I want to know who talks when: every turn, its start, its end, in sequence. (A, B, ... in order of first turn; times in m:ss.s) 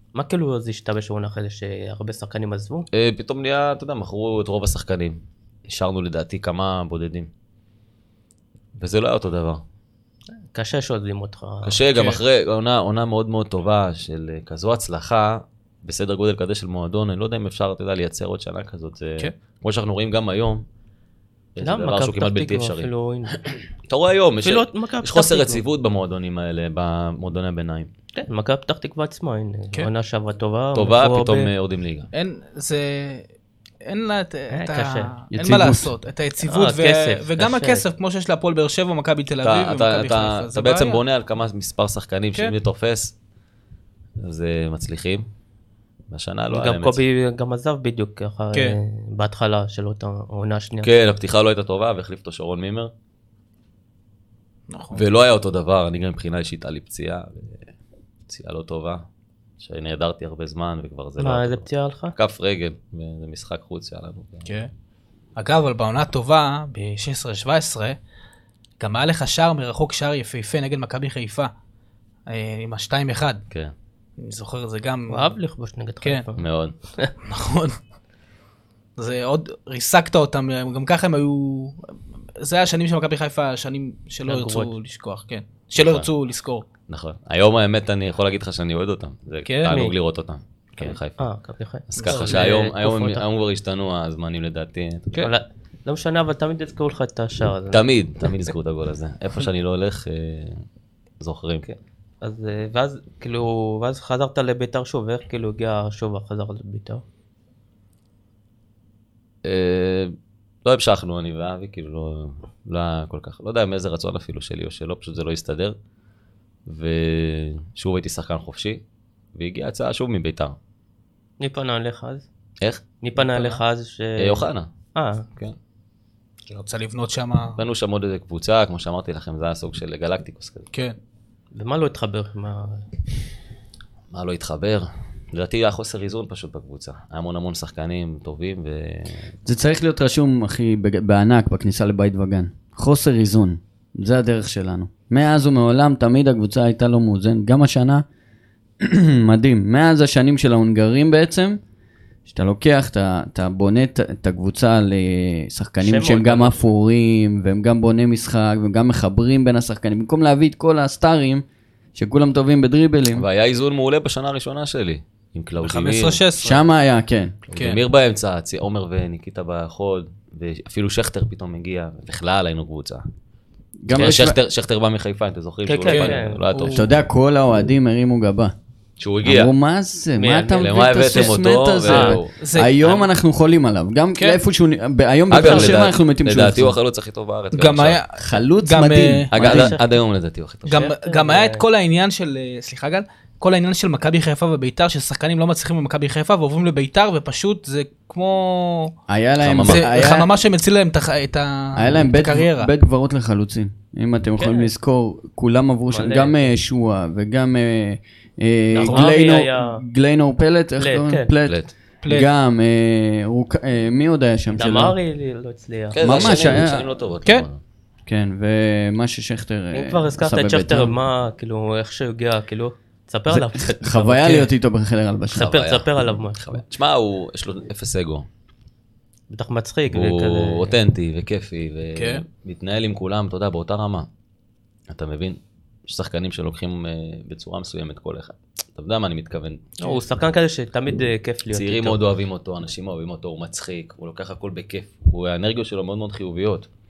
0:00.1-0:02.9 A
0:02.9-0:07.3 B
0:08.8-0:09.6 B
0:10.5-0:11.8 A
0:11.6-0:20.6 B
0:11.9-0:12.2 C
0:21.5-0:22.9 B
0:21.6-0:23.4 A
0:23.9-0:27.9 B
0:24.4-0:25.6 A
0:28.1-0:31.5 A
0:30.7-0:32.1 B
0:32.1-0:33.2 C
0:33.8-0:41.0 C
0:34.5-0:35.1 A
0:35.3-0:35.9 D
0:36.4-0:37.8 A
0:39.4-0:43.1 B
0:44.2-0:45.3 B
0:46.1-0:47.0 B
0:46.5-0:50.9 A
0:48.5-0:48.8 C
0:50.8-0:52.9 B
0:54.7-0:55.0 C
0:54.9-0:57.6 B
0:58.3-0:59.0 B
0:59.6-1:04.5 B
1:01.2-1:02.1 A
1:05.4-1:08.0 C
1:08.8-1:11.5 C
1:12.3-1:13.4 C
1:14.2-1:15.3 C
1:15.1-1:16.4 A
1:16.4-1:16.7 B
1:17.2-1:17.8 C
1:19.0-1:26.6 C
1:24.2-1:24.7 A
1:25.8-1:26.1 B
1:26.9-1:31.3 B
1:29.4-1:29.9 C
1:29.7-1:29.9 A
1:31.2-1:33.2 A
1:31.9-1:35.1 B
1:32.0-1:32.4 C
1:35.2-1:37.8 A
1:37.7-1:40.6 B
1:41.2-1:41.6 B
1:41.6-1:47.0 A
1:49.4-1:55.8 B
1:56.7-1:58.8 B
1:59.3-2:00.6 B
2:01.4-2:02.3 A
2:03.0-2:05.3 A
2:03.2-2:03.6 C
2:04.2-2:04.7 B
2:06.5-2:07.6 C
2:07.6-2:10.7 B
2:11.5-2:12.8 A
2:14.1-2:19.3 B
2:19.4-2:28.0 D
2:28.8-2:31.6 D
2:32.3-2:41.4 D
2:35.8-2:36.6 A
2:42.0-2:43.2 D
2:43.1-2:46.2 B
2:45.6-2:46.6 C
2:46.4-2:47.4 D
2:47.5-2:53.0 B
2:47.5-2:47.8 C
2:53.8-2:54.4 D
2:53.9-2:57.0 B
2:55.6-2:56.4 A
2:55.9-2:56.9 C
2:56.7-2:58.5 D
2:59.0-2:59.5 B
2:59.2-3:06.8 D
3:00.2-3:01.3 A
3:00.5-3:02.3 B
3:01.8-3:02.2 A
3:02.4-3:03.1 C
3:05.3-3:08.0 B
3:05.4-3:05.7 A
3:07.5-3:09.3 C
3:08.1-3:09.8 D
3:09.3-3:10.8 B
3:09.4-3:09.9 A
3:10.6-3:18.9 C
3:10.7-3:11.6 A
3:19.1-3:20.3 D
3:19.4-3:19.9 B
3:19.6-3:22.7 C
3:21.8-3:35.0 D
3:24.4-3:24.7 A
3:25.9-3:26.4 A
3:28.7-3:29.8 A
3:30.8-3:31.3 A
3:31.4-3:31.7 B
3:32.0-3:32.3 C
3:34.5-3:36.6 A
3:35.9-3:37.6 B
3:36.0-3:36.9 D
3:38.0-3:40.9 D
3:39.7-3:44.3 A
3:43.3-3:45.6 D
3:44.1-3:44.5 C
3:45.3-3:48.2 B
3:45.4-3:46.6 A
3:49.3-3:50.7 A
3:49.9-3:54.1 B
3:51.9-3:52.2 C
3:54.9-3:59.8 B
3:59.8-4:02.0 A
4:01.5-4:06.7 B